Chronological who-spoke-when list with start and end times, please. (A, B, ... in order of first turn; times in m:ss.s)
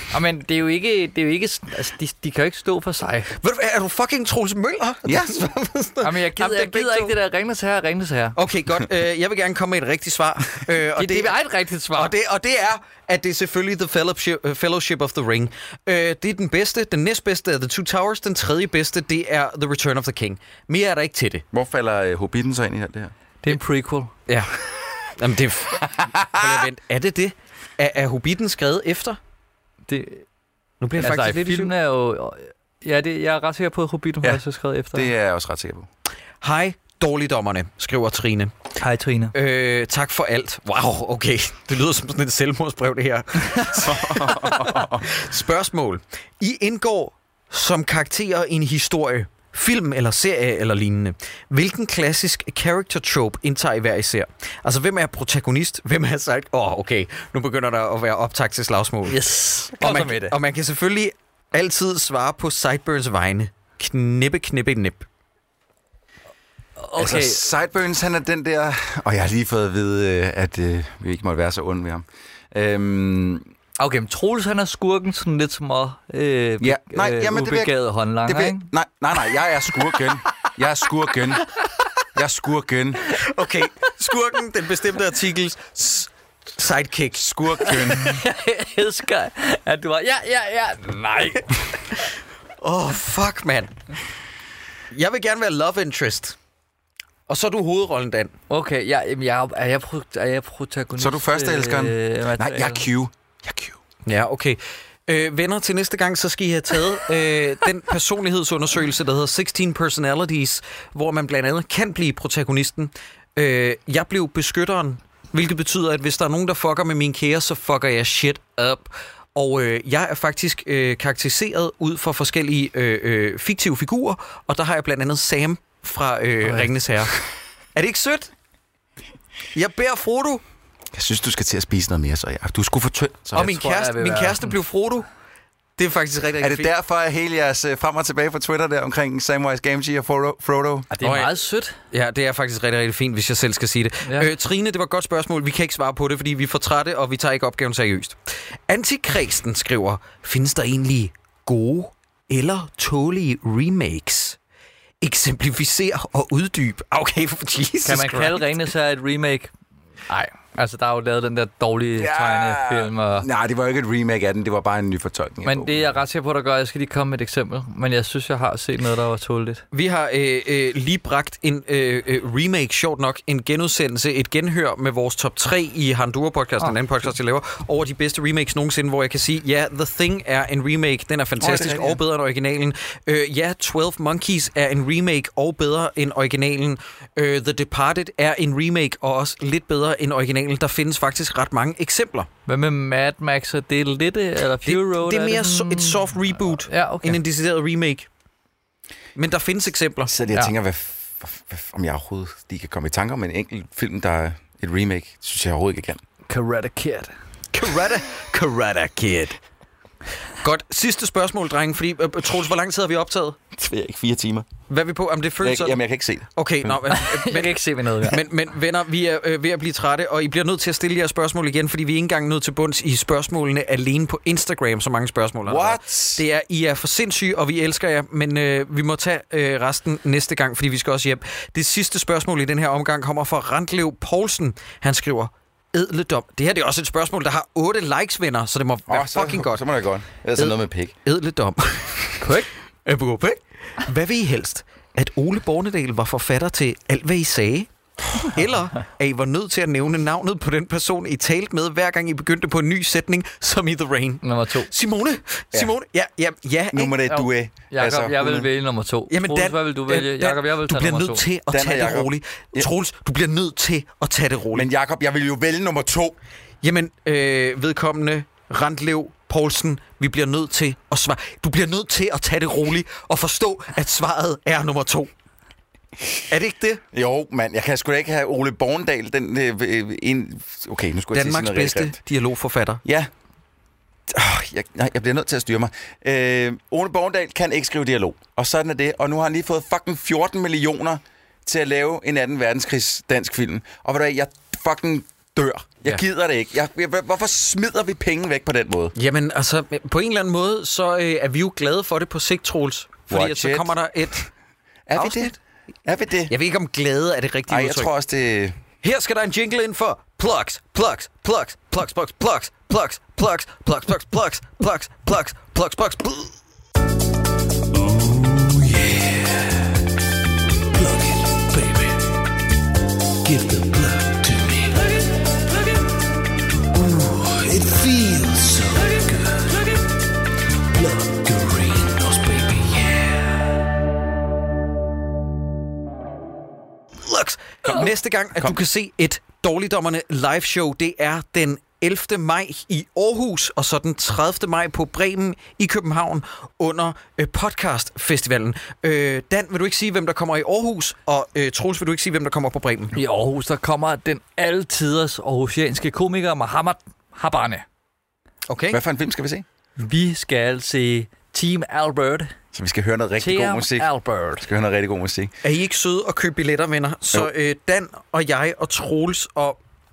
0:00.1-0:03.4 A
0:03.4-0:07.2 B
0:05.1-0:05.4 C
0:06.0-0:08.4 A
0:08.4-0:11.4 B
0:11.0-0:12.1 A
0:12.0-0:21.4 B
0:21.5-0:23.1 C
0:23.4-0:24.1 A
0:24.3-0:24.6 B
0:25.1-0:29.2 B
0:25.8-0:26.6 C
0:29.9-0:30.2 A
0:30.8-0:31.7 B
0:31.0-0:35.1 A
0:34.9-0:35.9 C
0:36.4-0:38.5 B
0:38.8-0:39.3 A
0:39.3-0:59.2 B
0:43.7-0:45.1 C
0:59.1-1:00.4 A
0:59.8-1:05.1 B
1:06.8-1:07.5 A
1:07.0-1:13.5 C
1:13.8-1:18.7 A
1:16.6-1:21.4 C
1:22.2-1:23.2 C
1:23.1-1:27.8 B
1:27.2-1:28.2 C
1:27.6-1:31.6 A
1:32.6-1:33.7 B
1:34.9-1:36.4 B
1:37.3-1:38.3 B
1:38.5-1:42.9 A
1:41.0-1:43.8 C
1:44.1-2:07.2 B
2:07.8-2:08.3 B
2:09.5-2:10.4 B
2:10.9-2:13.5 C
2:13.3-2:14.5 A
2:13.4-2:15.1 B
2:15.8-2:16.7 B
2:16.4-2:20.9 C
2:20.9-2:21.8 A
2:21.0-2:21.3 B
2:21.9-2:28.2 B
2:24.0-2:24.3 A
2:28.7-2:34.4 B
2:35.0-2:38.4 B
2:37.8-2:39.5 A
2:40.1-2:43.3 A
2:42.0-2:45.9 C
2:45.4-2:49.6 A
2:49.7-3:12.3 B
3:01.4-3:02.0 C
3:12.5-3:17.2 A
3:14.6-3:18.1 B
3:19.2-3:20.1 B
3:20.1-3:26.0 C
3:26.3-3:27.1 A
3:27.5-3:29.4 B
3:30.4-3:33.4 B
3:33.5-3:34.5 C
3:34.7-3:35.8 B
3:35.4-3:36.8 C
3:36.4-3:59.7 B
3:36.9-3:38.2 A
3:45.4-3:46.2 C
3:58.9-4:00.9 C
4:00.4-4:02.2 B
4:02.2-4:02.5 A
4:02.8-4:17.2 B
4:14.2-4:14.7 A
4:16.7-4:18.5 C
4:17.1-4:21.2 A
4:19.1-4:24.7 B
4:21.5-4:22.7 C
4:24.5-4:26.2 C
4:26.6-4:35.1 B
4:36.3-4:36.8 B
4:36.9-4:42.0 C
4:41.1-4:42.8 B
4:42.8-4:43.1 C
4:44.1-4:58.9 C
4:59.0-5:04.3 B
5:03.1-5:03.7 C
5:04.9-5:05.3 C
5:04.9-5:05.4 B
5:05.8-5:06.3 C
5:06.3-5:07.9 B
5:07.5-5:08.6 C
5:08.8-5:16.3 B
5:17.9-5:19.0 C
5:23.3-5:24.7 B
5:26.9-5:29.4 B
5:30.8-5:33.2 B
5:37.0-5:52.9 B
5:37.7-5:38.6 C
5:52.9-5:57.6 A
5:58.5-5:58.8 B
5:58.7-5:59.4 C
5:59.8-6:02.4 A
6:02.5-6:05.3 C
6:03.2-6:04.5 A
6:05.4-6:09.6 B